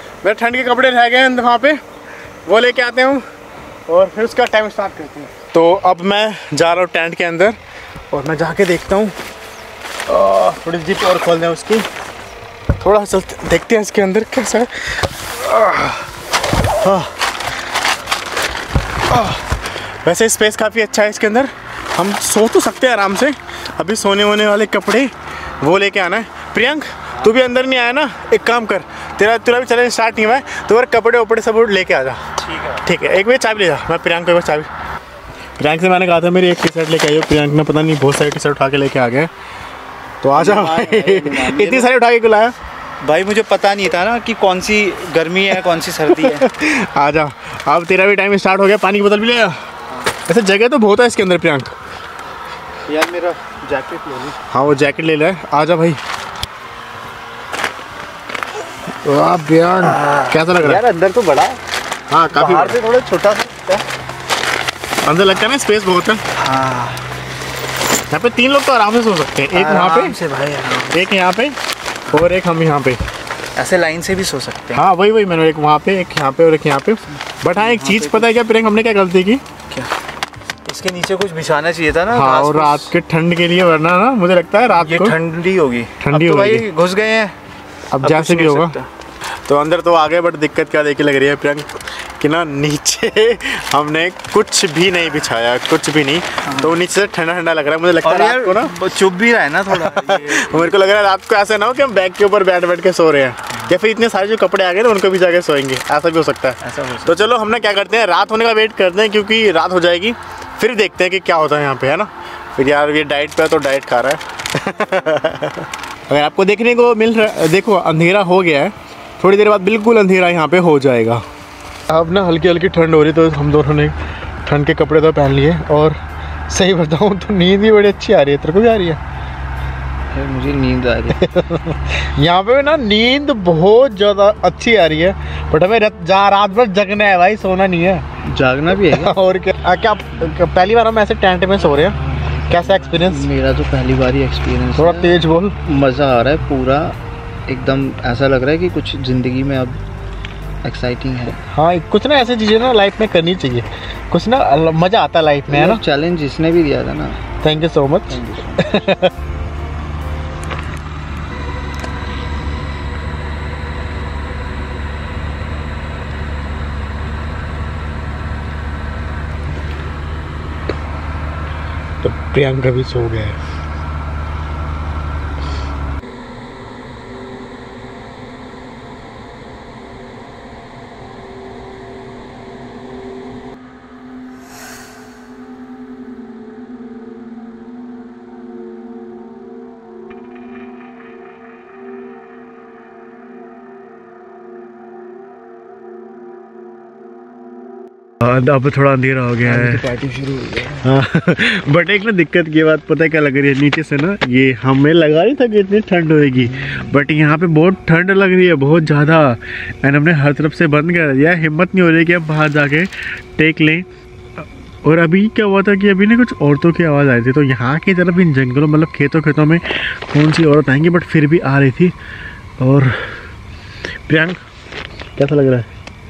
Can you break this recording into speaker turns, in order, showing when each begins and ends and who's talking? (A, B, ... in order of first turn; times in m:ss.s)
0:00.2-0:01.8 A
0:02.5-0:03.2 A
0:03.9-0:07.6 A
0:08.1-0:09.2 A
0:10.1-0:11.9 A
0:12.8-0:16.1 A
0:16.8-0:17.2 A
0:19.1-0:32.3 A
0:32.4-0:32.8 B
0:32.8-0:34.7 A
0:35.6-0:39.3 A
0:40.2-0:42.5 A
0:40.4-0:41.9 B
0:43.0-0:46.5 B
0:46.1-0:51.8 A
0:52.9-0:54.4 B
0:54.5-0:56.0 A
0:59.0-1:00.8 A
0:59.8-1:01.6 B
1:02.1-1:02.8 A
1:02.3-1:03.9 B
1:05.0-1:06.2 A
1:06.3-1:07.1 B
1:08.1-1:10.2 A
1:09.5-1:11.0 B
1:10.9-1:11.6 A
1:12.1-1:13.0 A
1:13.6-1:14.8 B
1:14.7-1:19.4 A
1:17.5-1:18.3 B
1:20.6-1:22.9 B
1:22.1-1:25.2 A
1:24.8-1:27.4 B
1:26.0-1:26.7 A
1:27.9-1:28.8 A
1:28.0-1:28.9 B
1:29.3-1:38.8 A
1:36.4-1:36.8 B
1:38.0-1:41.0 B
1:39.7-2:01.2 A
1:43.5-1:43.8 B
1:46.6-1:47.3 B
2:01.9-2:09.0 A
2:10.1-2:11.3 B
2:11.1-2:18.1 A
2:18.2-2:19.2 B
2:18.9-2:23.3 A
2:21.6-2:29.8 B
2:24.8-2:25.6 A
2:30.6-2:31.4 B
2:31.5-2:35.8 A
2:35.5-2:37.2 B
2:37.4-2:39.1 A
2:38.1-2:38.8 B
2:52.0-2:53.4 A
3:18.2-3:19.8 A
3:19.4-3:20.9 B
3:20.8-3:33.9 A
3:26.4-3:27.0 B
3:34.4-3:42.0 A
3:42.6-3:43.3 A
3:44.1-3:44.4 A
3:45.2-3:45.7 A